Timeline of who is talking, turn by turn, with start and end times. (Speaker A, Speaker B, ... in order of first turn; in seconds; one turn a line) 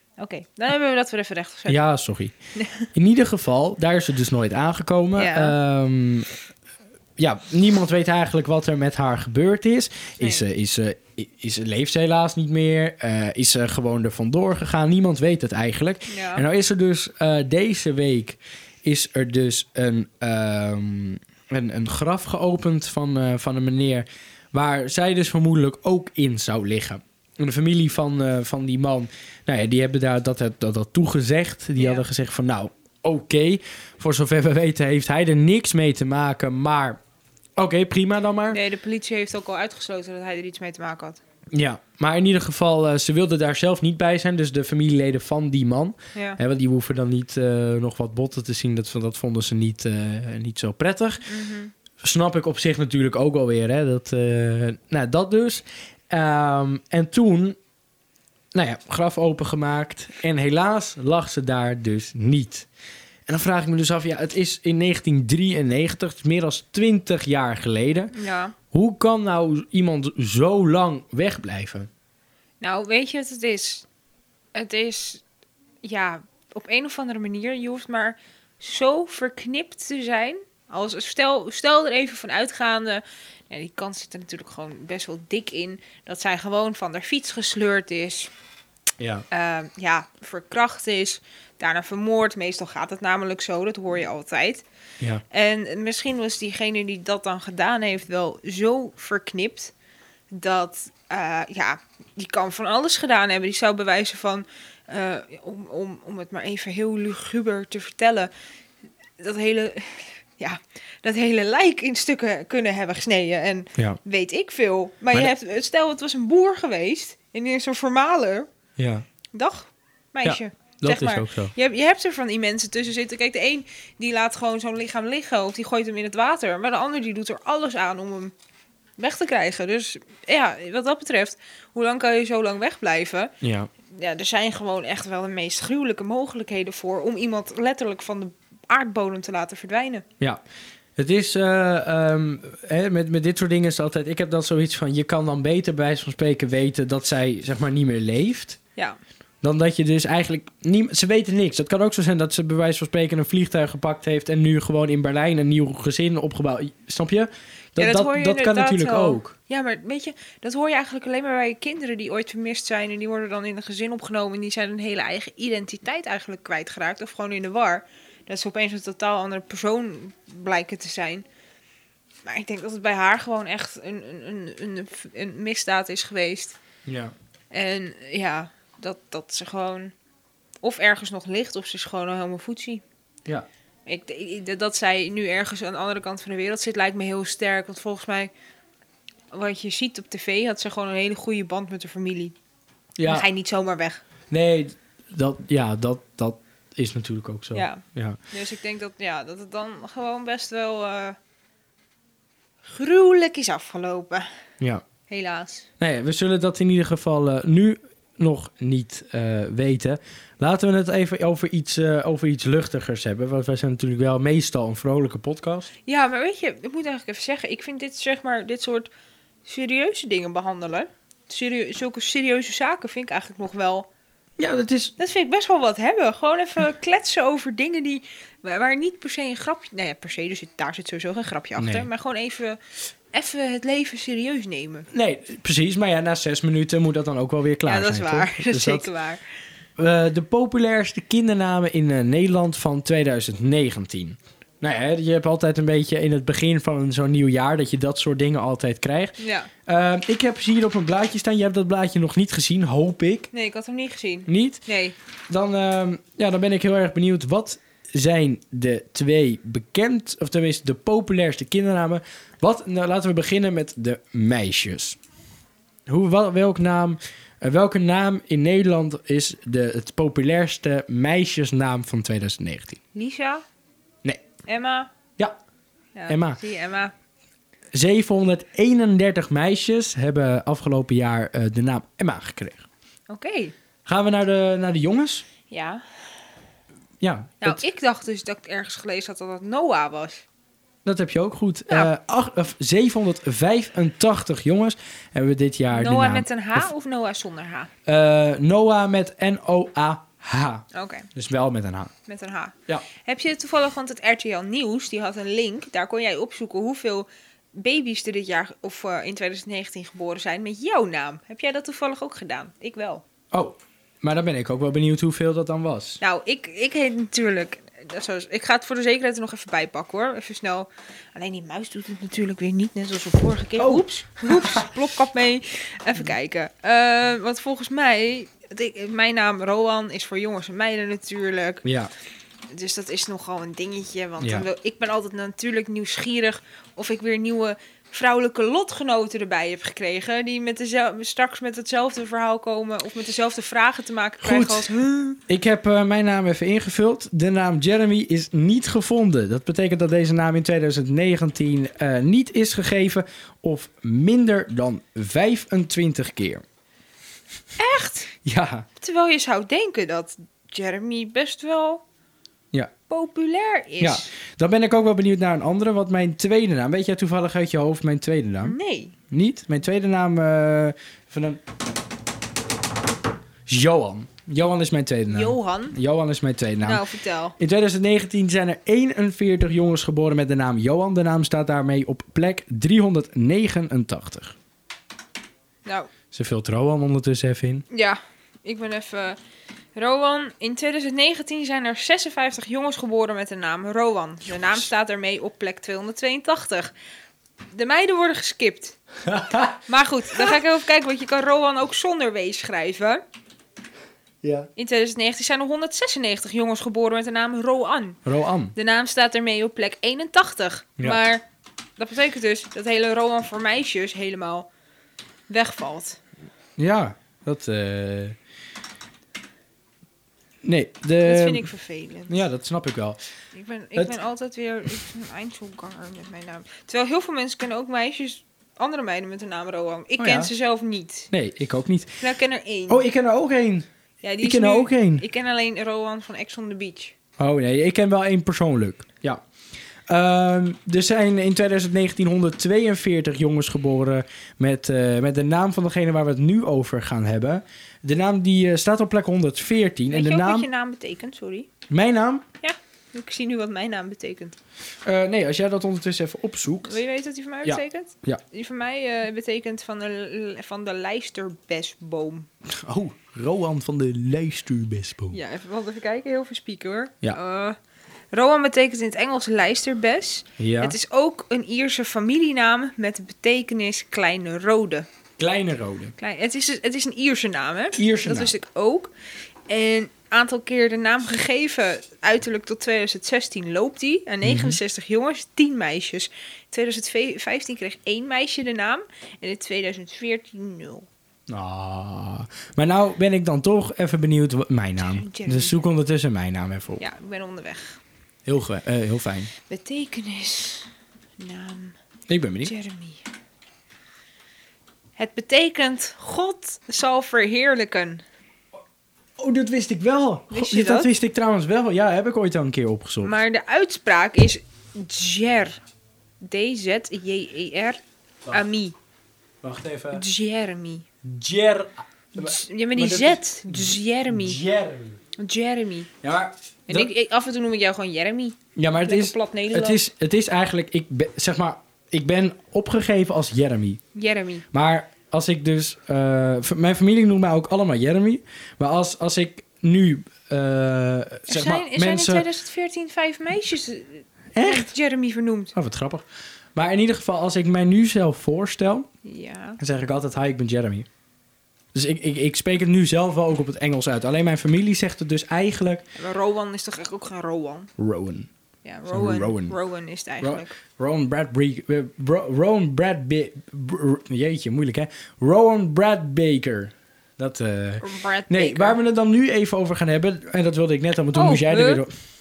Speaker A: 0.2-1.8
Speaker B: 1.7-2.3
Speaker A: 2.5-2.9
Speaker B: 2.9-6.3
Speaker A: 5.1-5.5
Speaker B: 7.2-37.0
Speaker A: 16.1-16.4
Speaker A: 31.8-32.0
Speaker B: 37.5-38.6
Speaker A: 38.5-41.2
Speaker B: 41.5-51.2
Speaker A: 51.3-51.7
Speaker B: 52.0-57.6
Speaker B: 58.5-62.7
Speaker B: 63.3-68.1
Speaker A: 68.1-68.5
Speaker B: 68.7-71.9
Speaker A: 72.6-73.8
Speaker A: 74.5-75.2
Speaker A: 75.8-88.3
Speaker B: 89.0-89.2
Speaker A: 89.3-94.6
Speaker A: 95.3-99.7
Speaker A: 100.3-108.3
Speaker A: 109.2-118.5
Speaker B: 118.8-119.0
Speaker A: 119.3-128.3
Speaker B: 120.2-121.5
Speaker A: 129.0-133.3
Speaker B: 133.4-133.7
Speaker A: 133.9-140.1
Speaker B: 140.9-148.6
Speaker B: 149.4-159.3
Speaker A: 157.8-171.2
Speaker A: 172.2-176.6
Speaker B: 176.8-177.1
Speaker A: 177.5-179.9
Speaker A: 180.6-182.8
Speaker A: 183.8-188.3
Speaker A: 189.3-192.3
Speaker B: 193.0-193.3
Speaker A: 193.0-194.0
Speaker B: 194.3-198.2
Speaker A: 197.5-201.2
Speaker A: 202.6-204.3
Speaker B: 204.6-204.8
Speaker A: 205.1-205.7
Speaker B: 205.8-215.7
Speaker A: 215.8-218.9
Speaker A: 219.4-223.9
Speaker B: 224.4-224.9
Speaker A: 225.0-232.6
Speaker B: 231.6-231.9
Speaker A: 233.1-234.9
Speaker B: 234.9-238.9
Speaker A: 237.7-239.2
Speaker B: 239.8-253.3
Speaker A: 249.2-249.5
Speaker A: 253.3-254.9
Speaker B: 254.3-254.6
Speaker B: 255.3-265.0
Speaker B: 265.9-272.8
Speaker A: 272.9-273.4
Speaker A: 274.5-274.9
Speaker A: 275.9-276.9
Speaker B: 276.1-276.4
Speaker B: 277.7-282.6
Speaker A: 283.1-283.5
Speaker B: 283.8-285.2
Speaker A: 285.5-285.8
Speaker B: 287.0-287.6
Speaker A: 287.4-290.2
Speaker B: 290.8-296.6
Speaker A: 295.7-297.7
Speaker B: 297.9-301.9
Speaker A: 300.7-301.1
Speaker A: 302.1-313.0
Speaker B: 313.3-316.0
Speaker A: 316.0-331.6
Speaker B: 323.6-324.7
Speaker B: 331.6-331.9
Speaker A: 332.5-345.2
Speaker B: 334.2-334.5
Speaker B: 344.2-344.7
Speaker B: 345.3-356.4
Speaker A: 357.6-358.1
Speaker B: 358.2-358.6
Speaker A: 358.8-361.8
Speaker A: 362.9-364.1
Speaker B: 363.8-368.6
Speaker A: 368.4-368.9
Speaker B: 369.1-371.4
Speaker B: 373.5-376.8
Speaker A: 375.1-375.8
Speaker A: 376.6-377.4
Speaker B: 377.4-384.4
Speaker A: 385.6-385.9
Speaker B: 386.1-387.6
Speaker A: 387.7-389.2
Speaker A: 389.7-396.7
Speaker A: 397.5-398.8
Speaker B: 399.0-399.6
Speaker A: 399.7-403.0
Speaker B: 404.2-404.5
Speaker A: 404.6-408.0
Speaker B: 408.0-408.5
Speaker A: 408.5-411.2
Speaker A: 411.8-414.5
Speaker A: 415.3-416.0
Speaker B: 416.6-418.2
Speaker B: 420.4-421.5
Speaker A: 421.0-422.2
Speaker B: 422.1-423.0
Speaker A: 423.3-431.1
Speaker B: 430.0-430.3
Speaker B: 431.1-432.0
Speaker A: 432.0-432.8
Speaker B: 432.7-433.7
Speaker A: 434.0-436.9
Speaker B: 434.2-435.0
Speaker B: 437.2-439.2
Speaker B: 439.9-450.5
Speaker A: 449.9-451.5
Speaker B: 451.7-452.2
Speaker A: 452.4-454.4
Speaker B: 454.8-456.8
Speaker A: 456.6-462.3
Speaker B: 457.4-458.2
Speaker B: 462.4-465.2
Speaker A: 465.1-467.6
Speaker A: 468.1-474.9
Speaker B: 470.4-470.8
Speaker B: 475.2-475.9
Speaker A: 476.0-478.9
Speaker B: 477.8-478.3
Speaker A: 479.5-490.9
Speaker B: 484.2-484.6
Speaker B: 491.3-496.8
Speaker A: 494.8-495.6
Speaker A: 496.8-497.8
Speaker B: 498.2-499.3
Speaker A: 499.5-501.8
Speaker B: 502.1-502.5
Speaker A: 502.4-503.0
Speaker A: 505.0-508.0
Speaker B: 509.2-513.1
Speaker A: 510.3-510.9
Speaker A: 513.0-515.6
Speaker A: 516.2-518.8
Speaker B: 519.4-520.0
Speaker A: 519.9-520.9
Speaker B: 521.0-525.0
Speaker A: 522.1-524.4
Speaker A: 525.2-525.9
Speaker B: 526.0-526.9
Speaker A: 526.7-529.8
Speaker B: 528.5-533.8
Speaker A: 533.9-534.4
Speaker B: 534.5-542.3
Speaker A: 541.3-545.5
Speaker B: 544.3-544.7
Speaker B: 545.5-548.9
Speaker A: 549.0-549.6
Speaker B: 549.6-550.9
Speaker B: 551.7-555.8
Speaker A: 556.0-557.7
Speaker B: 557.8-558.3
Speaker A: 558.6-560.5
Speaker B: 558.9-559.6
Speaker B: 560.2-571.9
Speaker A: 567.8-568.8
Speaker A: 571.1-571.8